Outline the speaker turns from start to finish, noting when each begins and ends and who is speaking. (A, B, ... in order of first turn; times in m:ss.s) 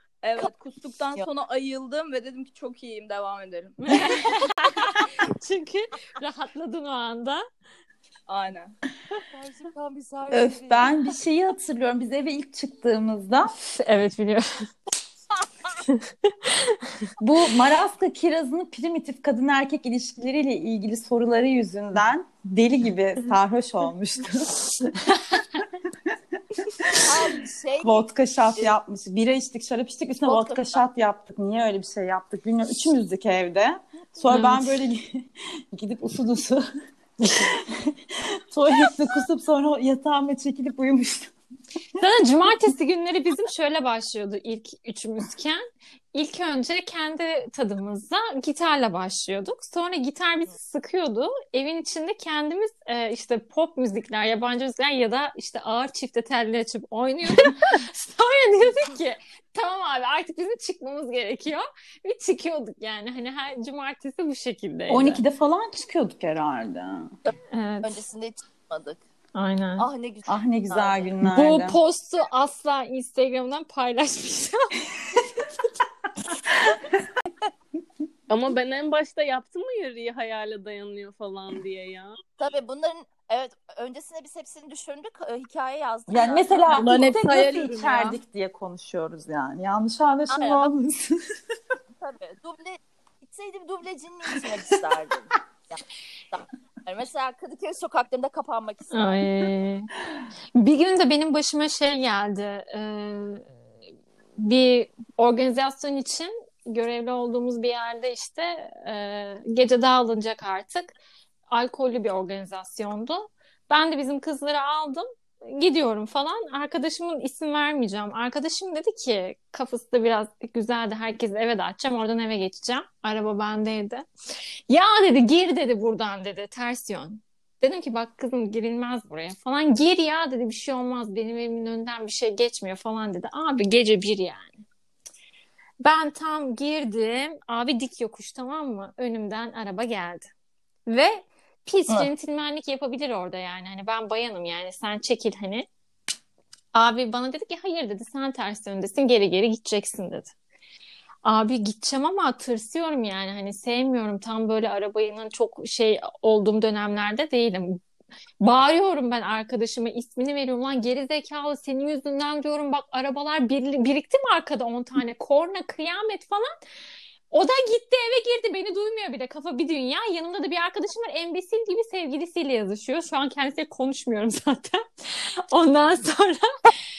0:00.2-0:03.8 A
0:03.8-0:07.4 B
0:08.3-0:08.7 A
0:09.2-0:11.0 C
0:10.3-0:13.5 D
0:13.6-0:14.6 B
0:17.2-0:25.0 D
0:25.6-0:26.2 D
0:26.9-0:28.8 C
0:27.8-0:36.6 D
0:30.2-0:30.8 C
0:34.2-0:34.8 B
0:37.2-0:37.5 B
0:37.5-0:37.9 D
0:38.5-0:41.3 D
0:42.0-0:45.6 B
0:46.1-1:05.2 B
1:04.9-1:07.1 D
1:07.2-1:09.0 C
1:07.5-1:08.0 B
1:09.3-1:09.9 B
1:09.8-1:11.1 C
1:10.3-1:11.8 D
1:11.3-1:14.8 B
1:18.3-1:22.2 E
1:22.4-1:26.9 C
1:26.1-1:31.2 D
1:26.7-1:28.2 A
1:30.3-1:30.7 C
1:32.0-1:39.2 C
1:38.9-1:39.9 B
1:40.6-1:43.5 B
1:44.4-1:50.9 B
1:51.5-2:04.0 B
2:04.7-2:14.6 B
2:15.8-2:20.3 B
2:20.9-2:25.7 B
2:26.7-2:30.3 B
2:31.2-2:37.8 B
2:38.4-2:46.5 B
2:47.3-2:56.8 B